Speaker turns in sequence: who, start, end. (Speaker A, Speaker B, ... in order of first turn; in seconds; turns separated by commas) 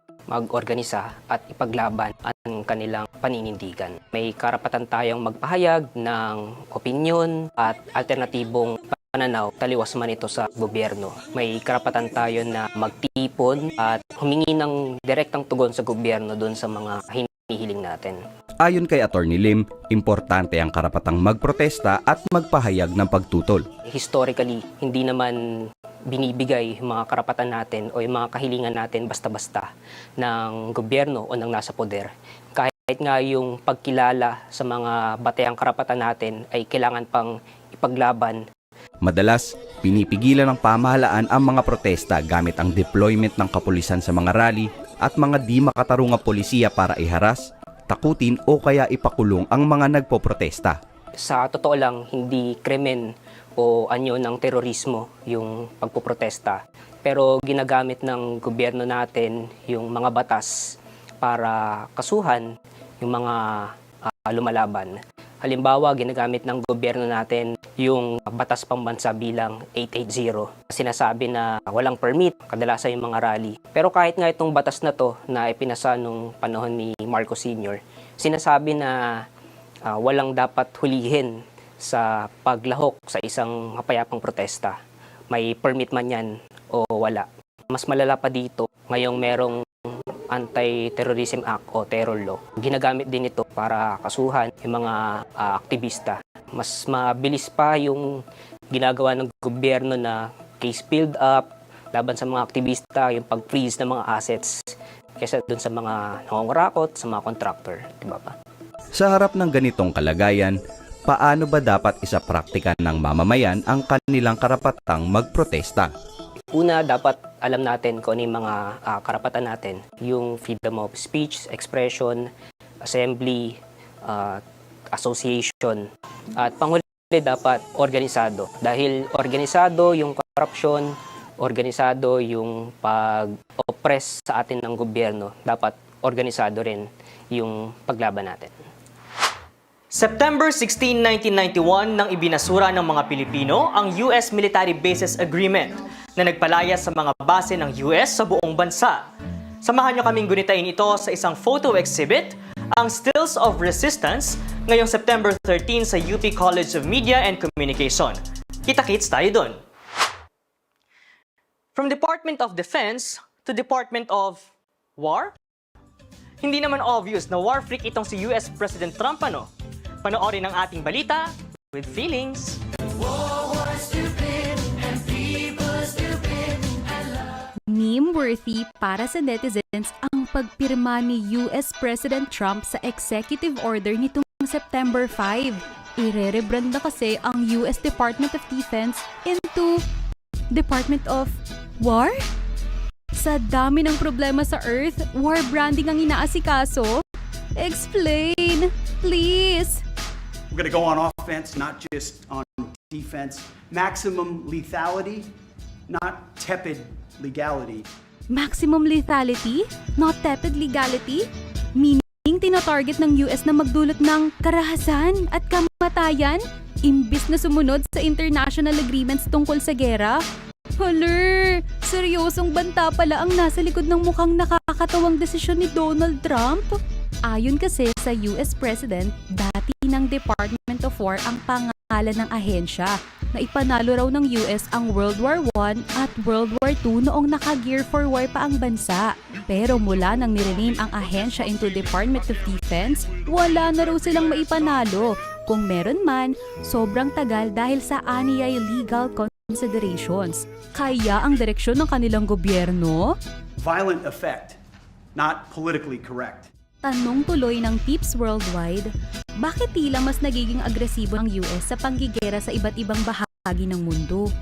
Speaker A: 0.3-18.2, Speaker B: 18.6-23.6, Speaker A: 23.8-25.4, Speaker A: 26.1-38.4, Speaker B: 39.0-50.8, Speaker A: 51.2-60.5, Speaker A: 61.2-62.5, Speaker A: 63.0-79.0, Speaker A: 79.8-84.8, Speaker A: 85.3-89.6, Speaker A: 90.3-98.1, Speaker A: 98.7-104.7, Speaker A: 105.2-108.3, Speaker B: 108.9-115.9, Speaker A: 116.5-122.3, Speaker A: 122.8-124.4, Speaker A: 124.9-125.8, Speaker A: 126.4-138.5, Speaker C: 139.9-149.0, Speaker C: 149.6-159.6, Speaker C: 161.8-164.4, Speaker C: 165.0-165.3, Speaker C: 166.4-169.5, Speaker C: 170.0-172.6, Speaker C: 175.3-175.9, Speaker D: 177.7-189.7, Speaker D: 190.5-192.1, Speaker D: 193.2-196.9, Speaker D: 197.6-199.8, Speaker E: 200.5-205.3, Speaker E: 205.9-207.8, Speaker D: 208.3-211.2, Speaker D: 211.8-220.2, Speaker D: 220.8-226.7, Speaker D: 227.3-253.1, Speaker E: 253.6-254.6, Speaker E: 255.1-256.5, Speaker D: 256.8-258.9, Speaker D: 259.4-264.2